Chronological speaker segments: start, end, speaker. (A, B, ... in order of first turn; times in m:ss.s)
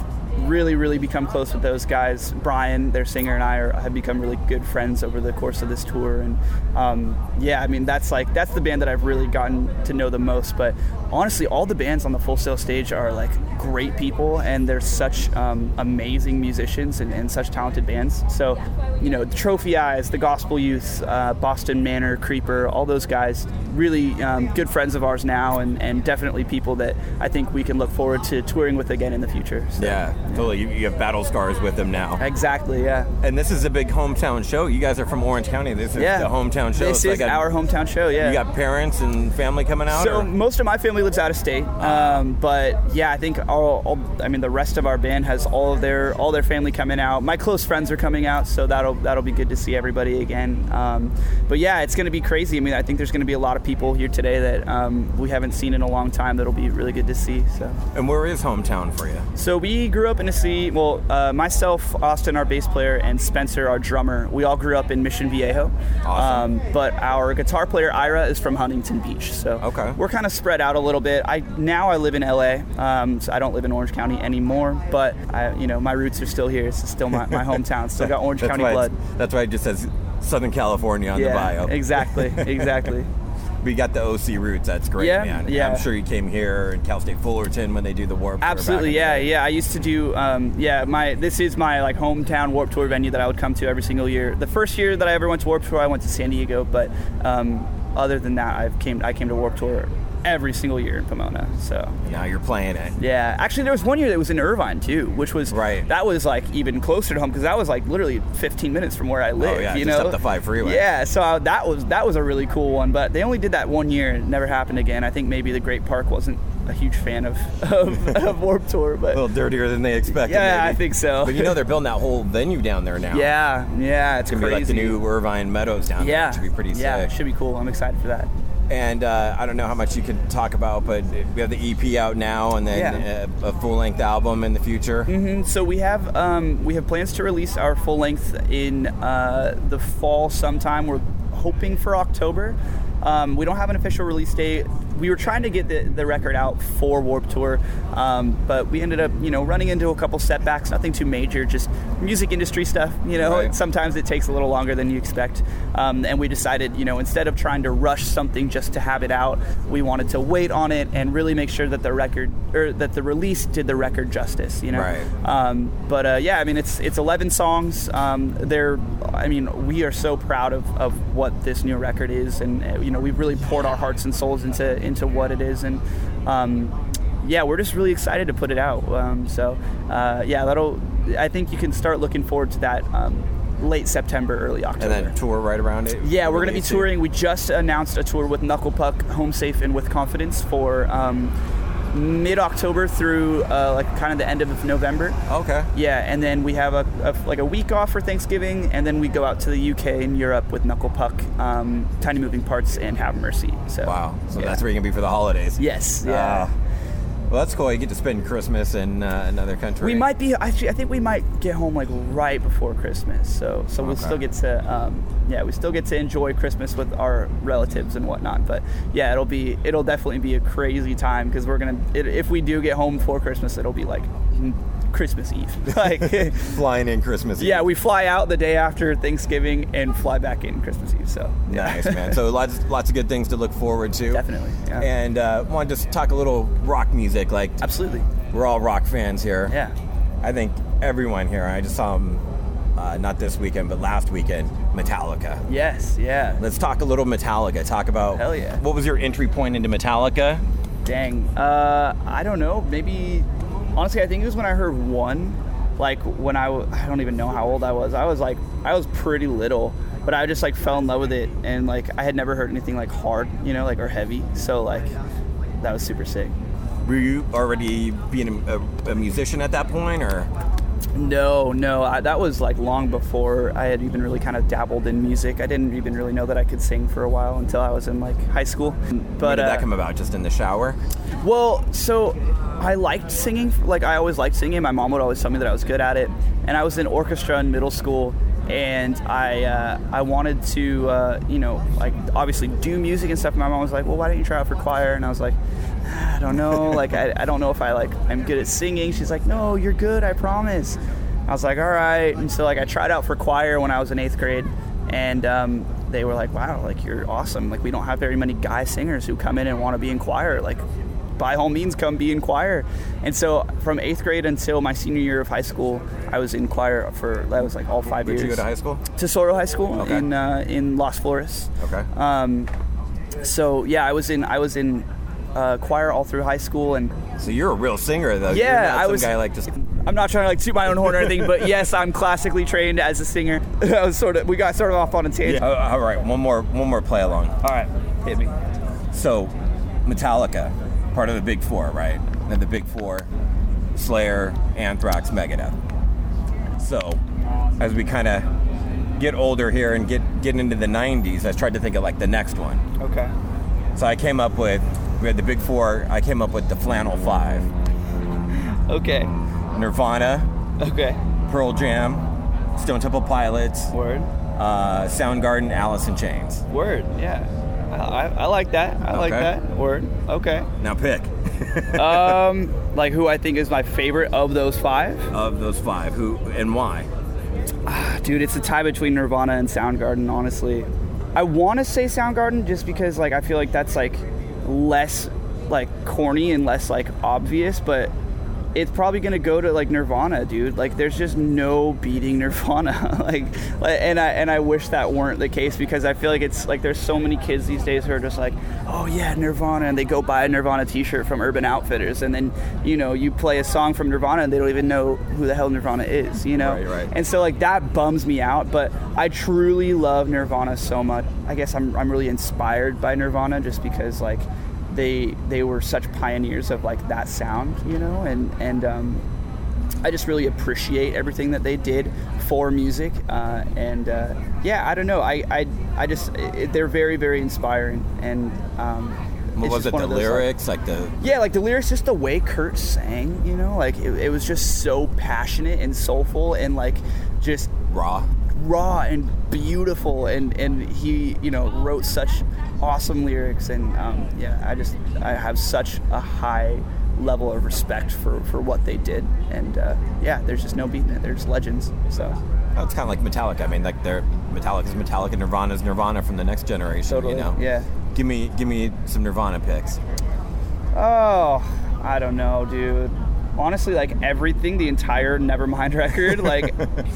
0:00.4-0:30.4 A
0:29.8-0:32.2 B
0:32.2-0:33.1 A
0:33.2-0:37.5 B
0:36.0-0:38.4 A
0:38.2-0:40.3 B
0:39.9-0:57.8 A
0:41.8-0:42.2 B
0:57.9-0:59.3 B
0:59.4-1:19.0 A
1:06.0-1:06.5 B
1:09.6-1:10.0 B
1:18.4-1:22.7 B
1:21.1-1:23.1 A
1:23.6-1:29.3 B
1:25.0-1:25.9 A
1:28.4-1:42.0 A
1:42.0-1:43.0 B
1:43.0-1:59.2 A
1:45.5-1:45.9 B
1:49.4-1:50.8 B
1:59.1-2:03.3 B
2:00.1-2:01.6 A
2:03.1-2:05.0 A
2:04.3-2:07.1 B
2:06.0-2:08.3 A
2:08.7-2:15.1 B
2:12.7-2:13.0 A
2:15.1-3:05.1 A
2:33.2-2:33.5 B
2:44.7-2:45.1 B
3:04.8-3:06.9 B
3:06.0-3:11.3 A
3:11.9-3:15.2 A
3:15.3-3:15.7 B
3:15.7-3:24.6 A
3:23.8-3:26.5 B
3:25.6-3:26.5 A
3:27.3-3:30.0 B
3:29.8-3:46.6 A
3:33.8-3:34.2 B
3:46.0-3:47.7 B
3:47.4-3:52.2 A
3:51.5-3:54.2 B
3:54.1-3:54.9 A
3:54.8-3:57.6 B
3:57.6-3:58.1 A
3:58.3-3:59.5 B
3:59.5-3:59.7 A
4:00.2-4:02.2 B
4:02.8-4:05.4 B
4:05.5-4:06.4 A
4:06.4-4:10.4 B
4:08.1-4:08.6 A
4:10.8-4:24.9 A
4:25.6-4:26.4 A
4:26.8-4:30.3 B
4:31.0-4:39.7 A
4:39.2-4:40.8 B
4:41.2-5:10.6 A
5:11.2-5:18.4 A
5:18.0-5:18.8 B
5:19.0-5:22.5 A
5:19.8-5:20.0 B
5:21.6-5:21.9 B
5:23.2-5:27.1 A
5:27.2-5:29.5 B
5:28.3-5:35.5 A
5:35.2-5:37.4 B
5:37.4-5:38.4 A
5:38.9-5:39.3 B
5:39.9-5:43.1 B
5:43.8-5:45.6 B
5:46.6-5:47.0 B
5:47.6-5:48.3 B
5:49.0-5:52.6 B
5:52.8-5:53.1 A
5:53.8-5:57.5 B
5:58.4-5:59.1 A
5:59.5-6:00.3 B
6:00.6-6:01.0 A
6:01.3-6:03.7 B
6:03.7-6:04.1 A
6:04.4-6:06.4 B
6:06.5-6:10.5 A
6:08.9-6:09.3 B
6:10.6-6:12.2 B
6:11.8-6:15.1 A
6:15.1-6:16.9 B
6:17.7-6:27.9 A
6:28.6-6:59.0 A
6:46.4-6:46.9 B
6:59.8-7:10.3 A
7:09.4-7:11.0 B
7:11.0-7:17.5 A
7:17.7-7:18.1 B
7:18.3-7:32.2 A
7:32.6-7:37.4 B
7:36.9-7:37.7 A
7:37.9-7:39.8 B
7:40.7-7:46.6 A
7:46.2-7:46.8 B